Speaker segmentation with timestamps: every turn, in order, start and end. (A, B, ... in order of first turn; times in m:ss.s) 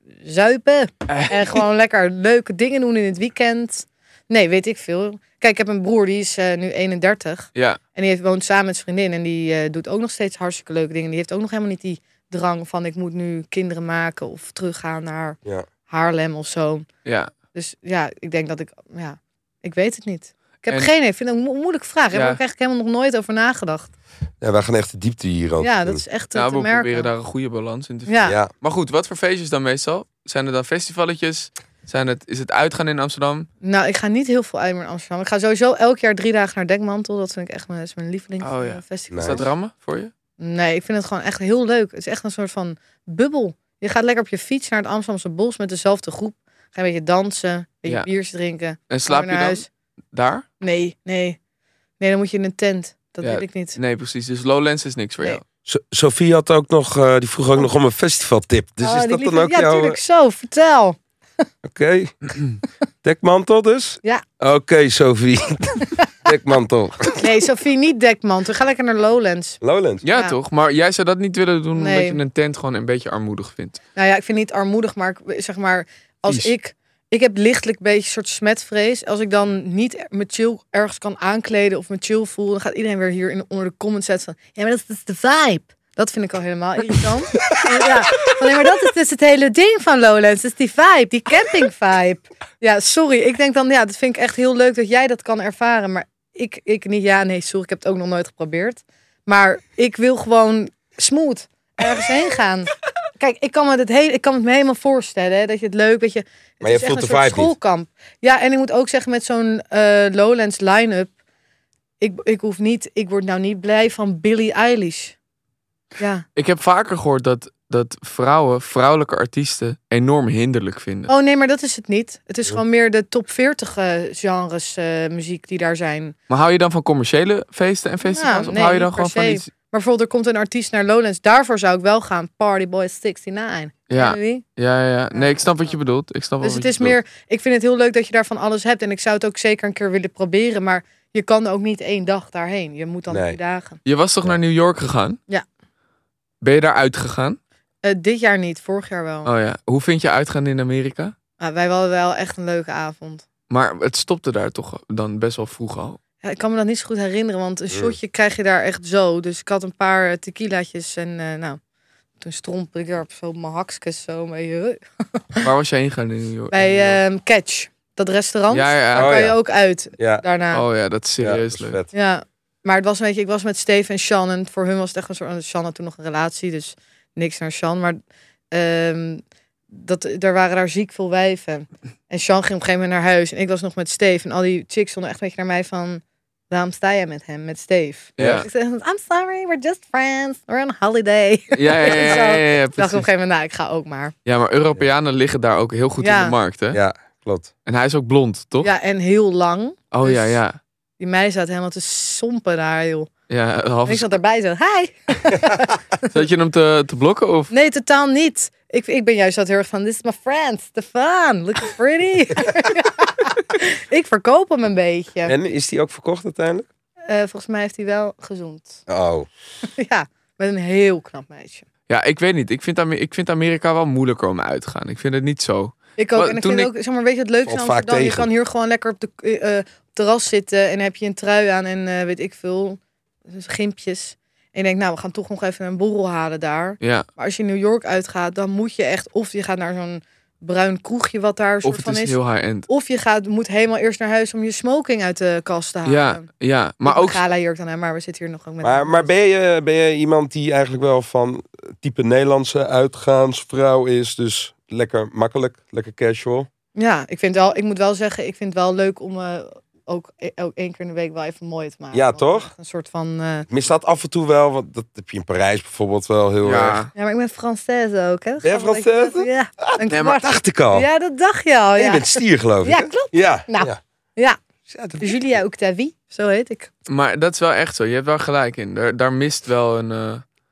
0:00.2-0:16.9 A
0:01.1-0:01.6 B
0:17.0-0:17.3 B
0:17.5-0:23.9 A
0:22.1-0:22.4 B
0:24.4-0:26.0 C
0:25.6-0:27.1 A
0:26.3-0:33.5 B
0:28.1-0:28.4 A
0:28.2-0:28.5 C
0:33.6-0:39.5 A
0:38.4-0:40.1 B
0:39.1-0:39.4 C
0:40.4-0:49.7 A
0:48.9-0:50.4 B
0:50.6-0:51.4 A
0:52.0-0:53.8 A
0:53.2-0:55.4 B
0:55.7-1:00.0 C
0:58.8-1:01.0 A
1:01.6-1:02.3 C
1:03.0-1:07.2 C
1:07.2-1:09.6 A
1:09.6-1:10.0 C
1:10.0-1:13.8 B
1:10.1-1:10.4 A
1:11.8-1:12.2 A
1:14.0-1:51.1 A
1:46.6-1:47.5 C
1:52.0-1:55.2 A
1:56.0-1:56.2 A
1:56.4-2:01.1 B
2:01.1-2:06.2 A
2:06.3-2:09.5 B
2:08.0-2:14.4 A
2:13.9-2:17.0 B
2:15.1-2:15.7 A
2:16.4-2:23.8 A
2:23.1-2:23.4 C
2:23.8-2:25.2 B
2:26.4-2:27.4 B
2:27.8-2:29.3 A
2:29.2-2:31.1 B
2:31.4-2:33.2 A
2:33.5-2:36.0 B
2:36.2-2:41.6 A
2:42.2-2:45.5 A
2:45.4-2:47.0 B
2:46.5-2:50.6 A
2:48.5-2:49.2 B
2:48.9-2:49.4 C
2:50.0-2:50.2 C
2:50.5-2:51.8 B
2:51.2-2:51.9 C
2:51.9-2:58.0 A
2:58.5-3:14.1 A
3:08.2-3:08.5 B
3:08.2-3:08.5 C
3:11.6-3:13.1 B
3:14.2-3:16.8 B
3:16.0-3:16.4 A
3:16.7-3:17.5 C
3:17.7-3:18.7 B
3:18.6-3:20.4 A
3:19.9-3:20.6 B
3:21.0-3:23.1 A
3:23.3-3:24.1 B
3:23.9-3:26.1 A
3:26.1-3:27.5 B
3:27.5-3:35.4 A
3:35.3-3:36.7 C
3:37.1-3:38.8 A
3:38.9-3:39.3 C
3:39.8-3:41.6 A
3:41.9-3:46.7 B
3:46.0-4:06.3 A
3:47.5-3:48.3 C
3:56.8-3:57.1 B
4:01.6-4:02.7 B
4:05.9-4:07.2 B
4:06.8-4:09.1 A
4:08.6-4:16.5 C
4:16.8-4:23.5 A
4:21.9-4:22.5 C
4:23.5-4:26.8 C
4:26.4-4:26.9 B
4:27.0-4:34.4 A
4:28.4-4:30.9 C
4:29.9-4:30.2 B
4:31.8-4:33.8 C
4:34.7-4:35.2 C
4:35.0-4:36.7 A
4:36.9-4:40.2 B